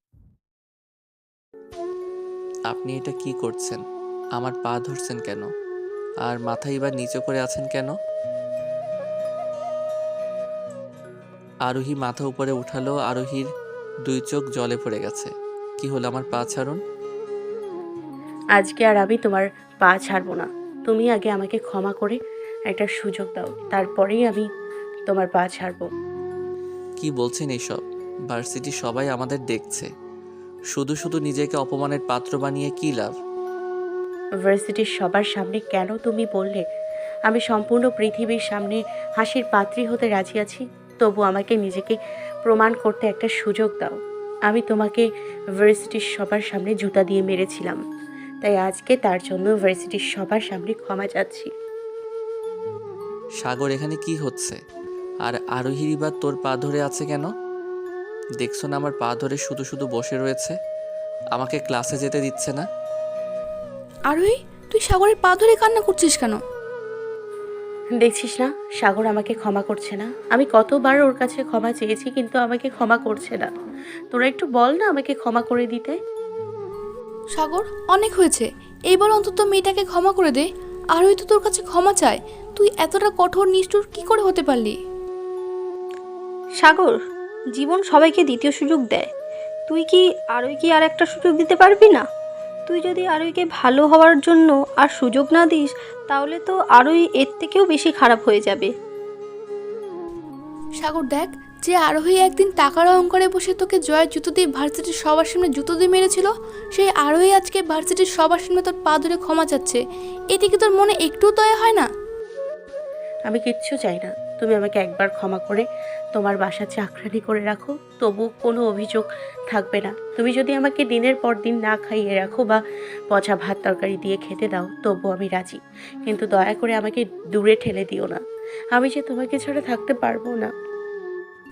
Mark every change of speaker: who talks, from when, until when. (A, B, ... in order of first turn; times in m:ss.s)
0:02.7-0:03.8 A
0:04.4-0:05.5 A
0:06.2-0:07.9 A
0:11.6-0:13.5 A
0:14.0-0:16.8 A
0:18.6-0:22.2 B
0:22.7-0:24.5 B
0:25.1-0:25.9 B
0:27.0-0:29.9 A
0:30.7-0:33.1 A
0:34.4-0:36.6 B
0:37.3-0:44.0 B
0:44.5-0:45.0 B
0:45.6-0:47.8 B
0:48.4-0:51.5 B
0:53.4-0:54.6 A
0:55.2-0:57.3 A
0:58.4-1:00.5 A
1:01.3-1:02.6 A
1:04.1-1:06.4 C
1:08.0-1:13.5 B
1:14.1-1:16.0 B
1:17.4-1:20.4 C
1:21.0-1:24.7 C
1:26.6-1:27.0 D
1:27.6-1:29.1 D
1:29.7-1:32.0 D
1:32.7-1:38.7 D
1:40.8-1:49.8 C
1:50.3-1:51.8 C
1:53.3-2:02.6 B
2:03.1-2:08.2 B
2:08.7-2:10.5 B